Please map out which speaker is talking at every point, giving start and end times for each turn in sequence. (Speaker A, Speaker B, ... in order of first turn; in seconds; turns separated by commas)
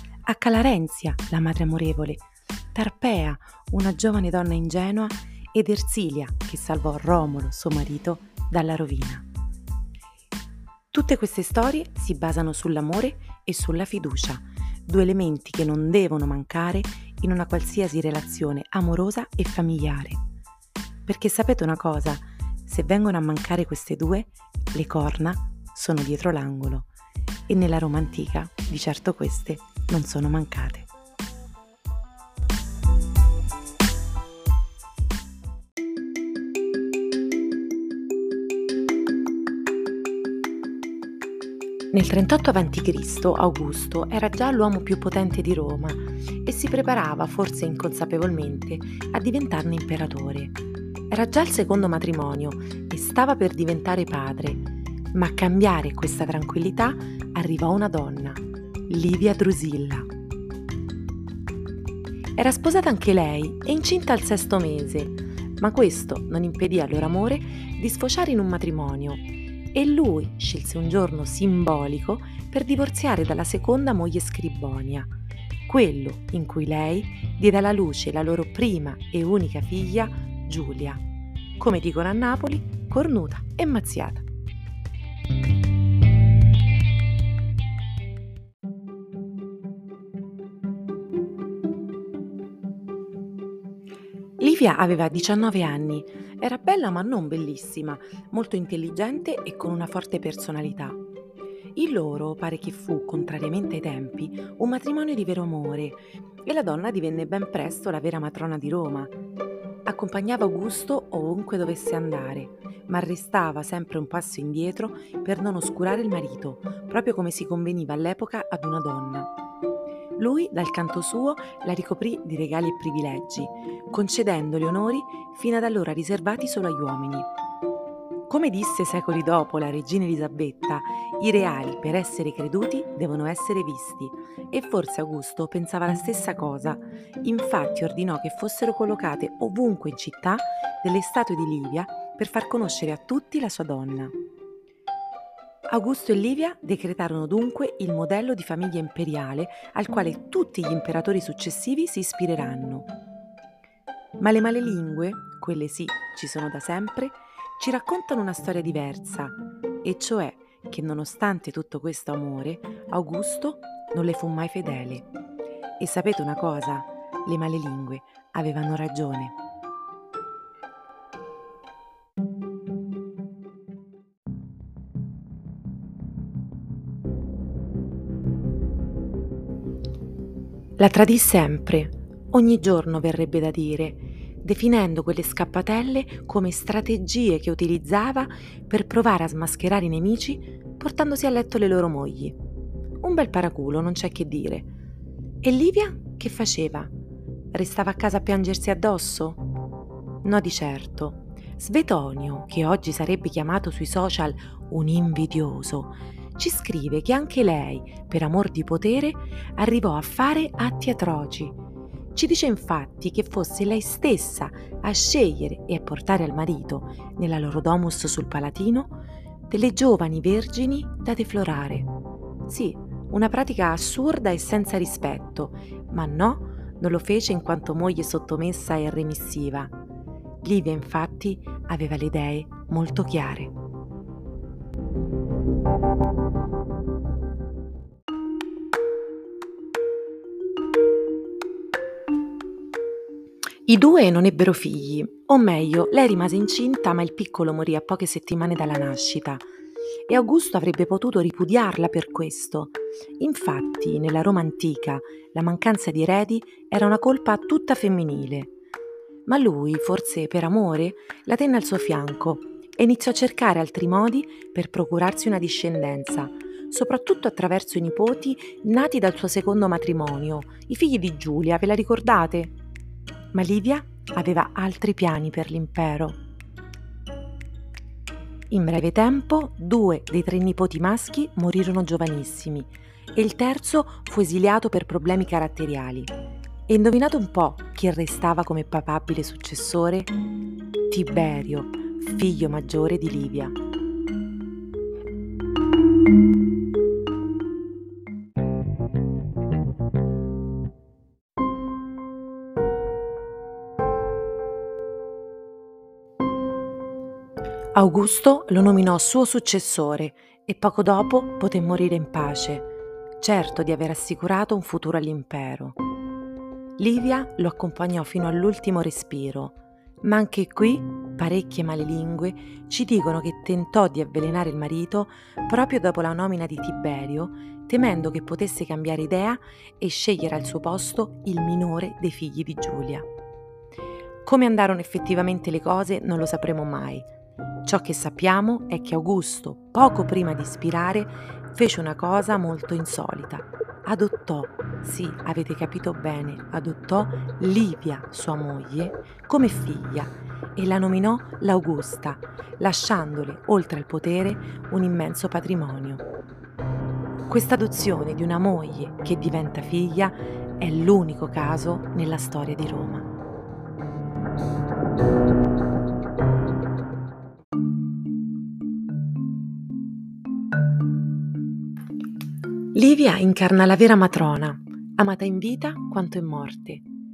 Speaker A: 0.2-9.3, Speaker A: 10.9-20.2, Speaker A: 21.1-26.9, Speaker A: 27.5-30.9, Speaker A: 41.9-50.6, Speaker A: 51.1-60.1, Speaker A: 62.4-75.1, Speaker A: 75.7-81.0, Speaker A: 81.6-84.2, Speaker A: 94.4-101.0, Speaker A: 101.8-109.1, Speaker A: 109.8-119.3, Speaker A: 120.2-127.3, Speaker A: 128.3-144.1, Speaker A: 145.7-152.9, Speaker A: 154.2-165.1, Speaker A: 165.8-169.3, Speaker A: 180.8-192.4, Speaker A: 193.0-194.7, Speaker A: 195.4-196.9, Speaker A: 197.5-199.4, Speaker A: 200.2-211.6, Speaker A: 212.1-218.9, Speaker A: 219.5-221.9, Speaker A: 222.4-229.7, Speaker A: 230.4-233.5, Speaker A: 243.7-249.4, Speaker A: 250.1-258.5, Speaker A: 259.2-272.5, Speaker A: 273.3-276.2, Speaker A: 278.5-286.1, Speaker A: 286.7-290.1, Speaker A: 290.9-293.6, Speaker A: 307.7-315.8, Speaker A: 316.8-333.1, Speaker A: 334.2-337.1, Speaker A: 337.6-356.0, Speaker A: 357.3-363.1, Speaker A: 372.7-376.8